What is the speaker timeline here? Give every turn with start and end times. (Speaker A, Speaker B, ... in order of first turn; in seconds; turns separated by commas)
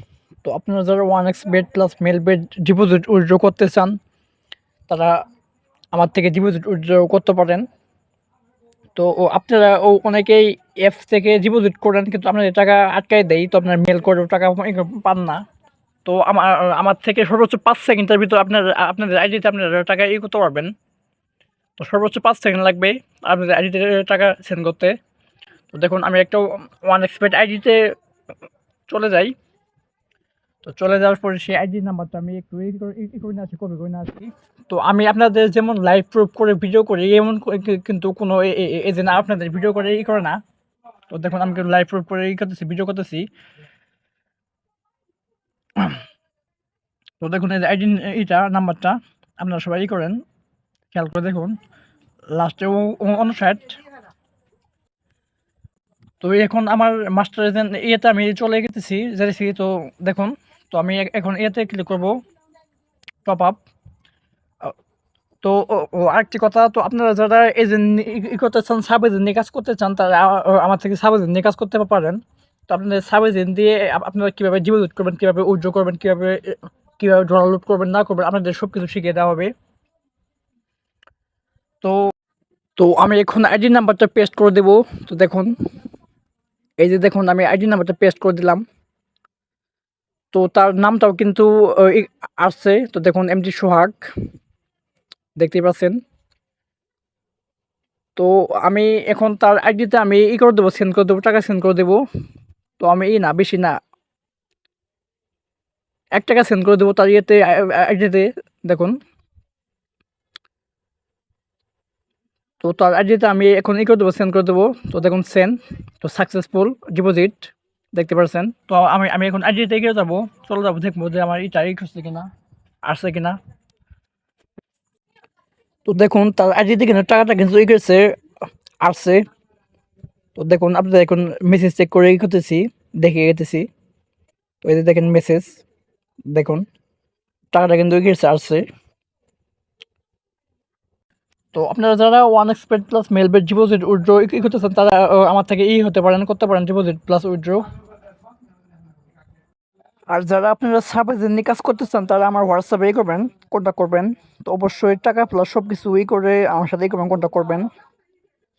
Speaker A: 0.4-4.0, Speaker A: 4.9-5.2, Speaker A: 5.9-7.6, Speaker A: 8.9-15.4, Speaker A: 16.0-20.7, Speaker A: 21.8-24.9, Speaker A: 25.7-27.9, Speaker A: 28.9-29.3, Speaker A: 30.6-40.4, Speaker A: 41.1-43.2, Speaker A: 47.2-50.2, Speaker A: 50.9-51.6, Speaker A: 52.3-53.8, Speaker A: 56.2-62.2, Speaker A: 63.2-63.6, Speaker A: 65.4-79.5, Speaker A: 82.8-85.5, Speaker A: 86.8-88.6, Speaker A: 90.3-94.1, Speaker A: 95.4-96.0, Speaker A: 98.2-102.0, Speaker A: 102.8-103.8, Speaker A: 106.2-108.9, Speaker A: 112.6-122.3, Speaker A: 122.8-123.4, Speaker A: 125.8-128.1, Speaker A: 128.8-129.2, Speaker A: 130.3-133.7, Speaker A: 134.6-135.6, Speaker A: 136.3-136.6, Speaker A: 137.5-138.6, Speaker A: 141.5-147.6, Speaker A: 150.1-157.7